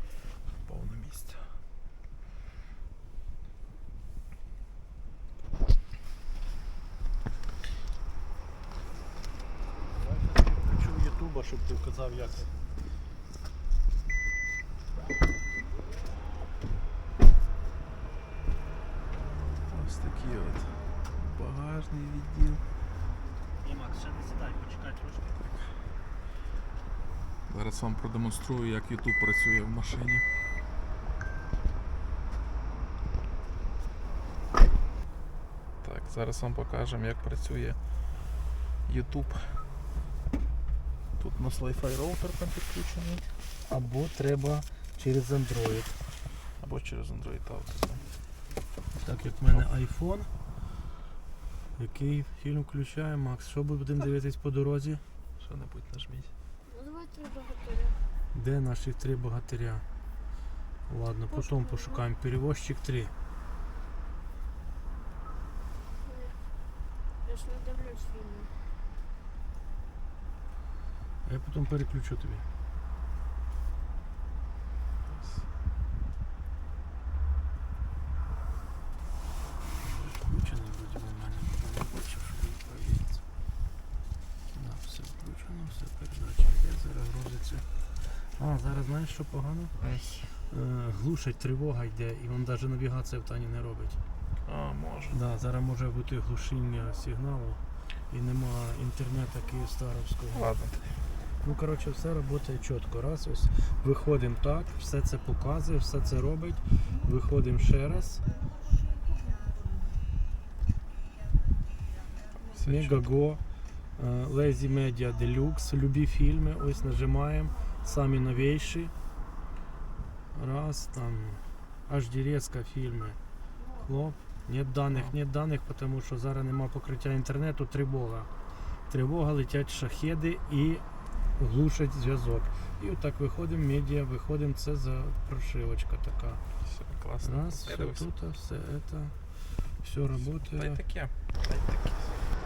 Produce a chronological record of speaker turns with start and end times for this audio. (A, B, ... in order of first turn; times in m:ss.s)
0:00.6-0:01.5 A
0:10.0-0:12.6 B
0:19.7-0:22.6 A
0:23.6-0:25.4 B
0:27.5-0:30.3 A
0:35.8-0:37.8 A
0:38.9-0:39.7 A
0:41.2-0:43.2 A
0:43.7-0:46.0 B
0:46.6-0:48.0 A
0:49.0-0:50.3 B
0:51.8-0:55.0 B
0:55.4-0:56.3 A
0:56.7-0:58.0 C
0:58.3-0:59.8 B
1:00.9-1:03.1 B
1:01.4-1:02.0 C
1:06.0-1:06.4 C
1:07.2-1:08.5 C
1:11.2-1:12.5 B
1:19.8-1:23.2 B
1:24.5-1:34.0 B
1:29.8-1:30.3 A
1:34.4-1:35.2 A
1:35.1-1:40.5 B
1:40.3-1:41.0 A
1:41.4-1:48.2 B
1:52.5-1:53.1 A
1:52.6-1:53.4 B
1:54.0-1:58.9 B
2:00.3-2:03.2 B
2:03.8-2:10.8 B
2:04.9-2:05.2 A
2:11.4-2:16.4 B
2:16.6-2:18.1 A
2:17.2-2:20.8 B
2:20.3-2:22.3 A